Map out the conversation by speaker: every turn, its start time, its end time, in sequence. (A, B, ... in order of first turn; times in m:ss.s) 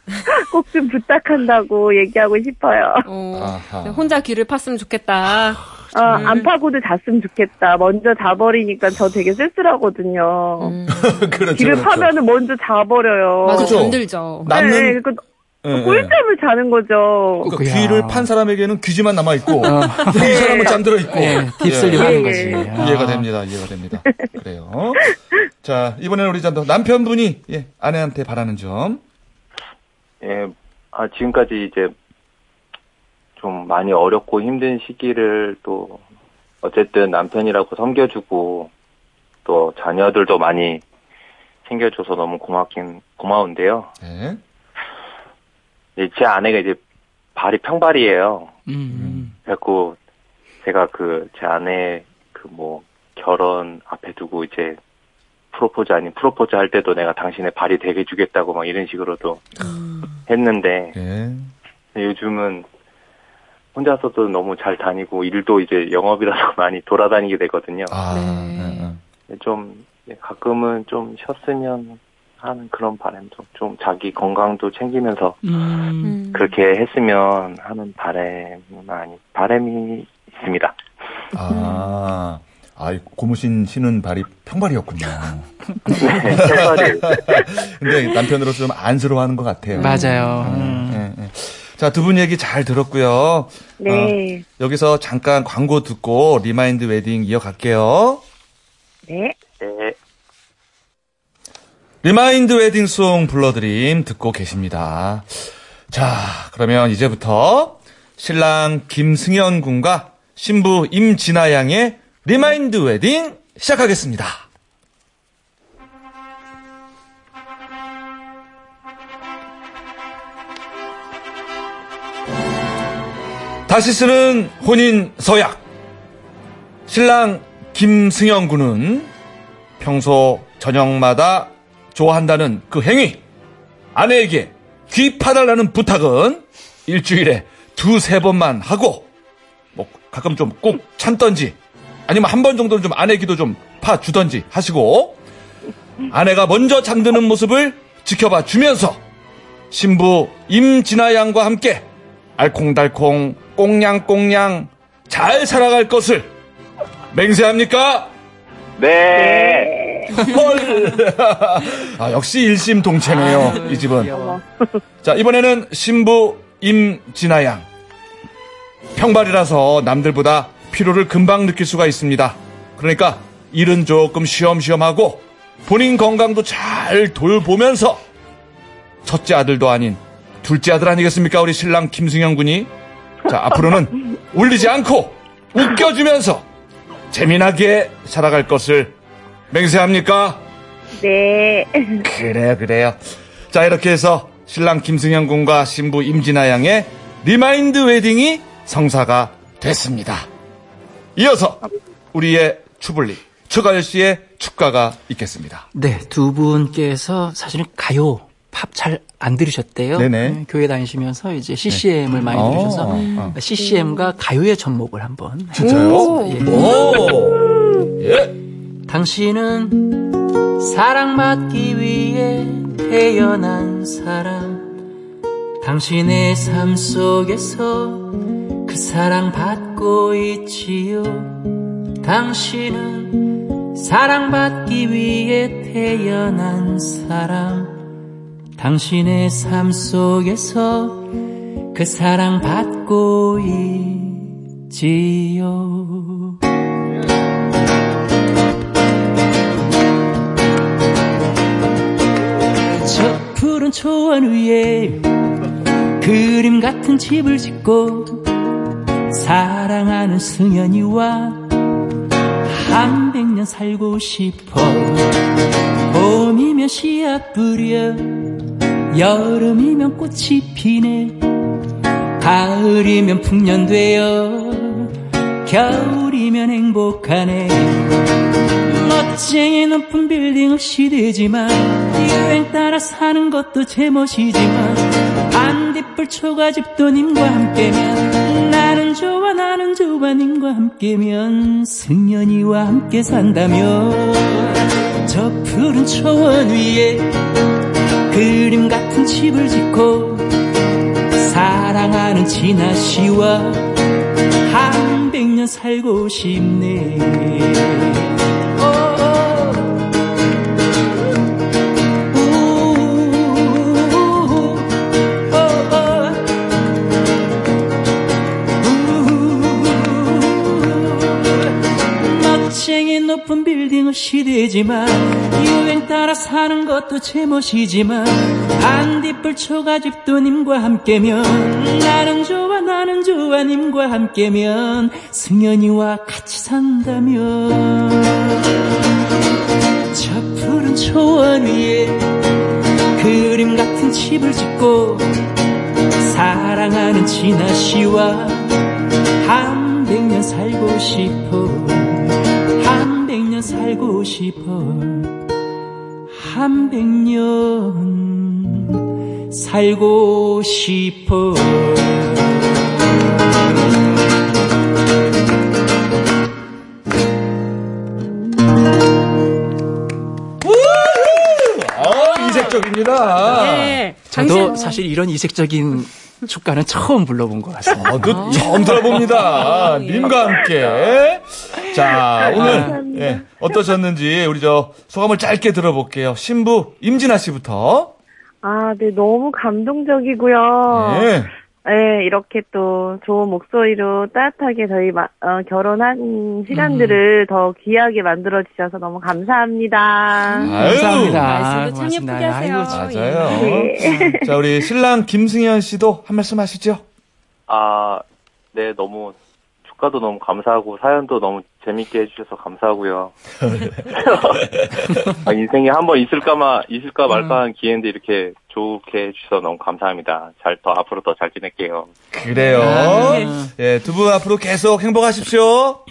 0:00.3-0:03.1 A
0:03.0-0:06.5 B
0:03.3-0:04.1 C
0:05.9-0:10.8 A
0:10.6-0:11.4 B
0:10.9-0:12.1 C
0:11.5-0:13.9 A
0:13.4-0:14.6 B
0:13.5-0:15.0 C
0:14.5-0:17.5 A
0:15.6-0:16.2 C
0:17.4-0:18.3 D
0:17.4-0:29.0 C
0:19.6-0:23.3 D
0:20.1-0:21.0 A
0:21.7-0:22.8 A
0:30.2-0:31.9 E
0:33.4-0:36.0 E
0:36.6-0:38.7 E
0:39.4-0:40.8 E
0:41.6-0:43.9 E
0:44.0-0:44.4 C
0:46.0-0:46.8 E
0:47.3-0:48.6 E
0:48.7-0:49.3 D
0:48.9-0:49.3 C
0:49.4-0:50.0 E
0:50.6-0:54.8 E
0:55.5-0:59.7 E
0:59.7-1:00.0 B
1:00.2-1:01.0 E
1:00.9-1:01.5 C
1:01.9-1:02.6 E
1:03.7-1:07.9 E
1:07.9-1:09.0 C
1:08.1-1:08.9 B
1:09.3-1:15.5 E
1:15.4-1:16.2 D
1:16.0-1:16.5 B
1:16.3-1:20.8 E
1:21.3-1:38.2 C
1:21.5-1:21.8 B
1:26.0-1:27.5 E
1:29.8-1:30.5 B
1:29.8-1:31.0 D
1:33.8-1:34.4 A
1:39.0-1:39.4 A
1:39.6-1:40.0 E
1:42.0-1:45.3 C
1:45.9-1:54.4 C
2:03.7-2:05.6 C
2:06.9-2:09.1 C
2:09.8-2:13.2 C
2:13.9-2:19.1 C
2:19.7-2:21.6 C
2:22.1-2:25.2 C
2:26.1-2:29.0 C
2:29.7-2:36.3 C
2:37.1-2:38.1 C
2:38.8-2:39.7 E
2:39.1-2:40.2 A
2:40.1-2:44.1 C
2:43.0-2:44.4 D
2:44.1-2:44.4 A
2:45.0-2:47.6 C
2:48.9-2:58.0 C
2:59.0-3:02.7 C
3:03.2-3:06.4 C
3:07.1-3:08.9 C
3:09.5-3:10.4 C
3:11.0-3:12.0 A
3:12.0-3:13.0 C
3:13.5-3:20.3 C
3:21.2-3:21.6 C
3:22.1-3:25.7 C
3:25.7-3:37.1 D
3:29.9-3:30.4 C
3:31.7-3:33.4 C
3:32.9-3:33.4 B
3:35.5-3:38.3 C
3:35.6-3:36.4 B
3:38.9-3:44.7 D
3:45.6-3:57.8 D
3:58.6-4:01.1 D
4:01.7-4:06.4 D
4:12.6-4:15.2 D
4:16.0-4:21.8 D
4:22.4-4:25.2 D
4:25.9-4:31.3 D
4:32.2-4:38.0 D
4:38.6-4:57.2 D
4:58.1-5:00.4 D
5:01.1-5:03.9 D
5:04.4-5:09.9 D
5:12.1-5:16.4 D
5:18.6-5:38.4 D
5:39.9-5:42.1 D
5:43.0-5:45.1 D
5:46.0-5:55.2 D
5:56.1-6:02.4 D
6:10.4-6:13.8 C
6:11.8-6:12.6 B
6:13.2-6:14.8 B
6:14.1-6:18.8 D
6:17.7-6:27.9 C
6:18.0-6:20.2 B
6:20.0-6:21.0 E
6:22.2-6:23.2 A
6:22.2-6:22.8 D
6:28.4-6:31.1 A
6:30.7-6:31.3 C
6:31.6-6:40.5 A
6:36.5-6:37.0 D
6:40.4-6:44.2 D
6:40.4-6:41.3 C
6:40.6-6:43.6 B
6:42.7-6:46.8 C
6:43.3-6:44.4 A
6:47.5-6:48.0 E
6:48.5-6:53.2 E
6:53.4-6:54.7 C
6:53.8-6:54.5 E
6:55.0-7:01.9 E
6:57.1-6:57.4 D
7:02.1-7:05.8 C
7:02.5-7:03.5 D
7:02.6-7:03.3 B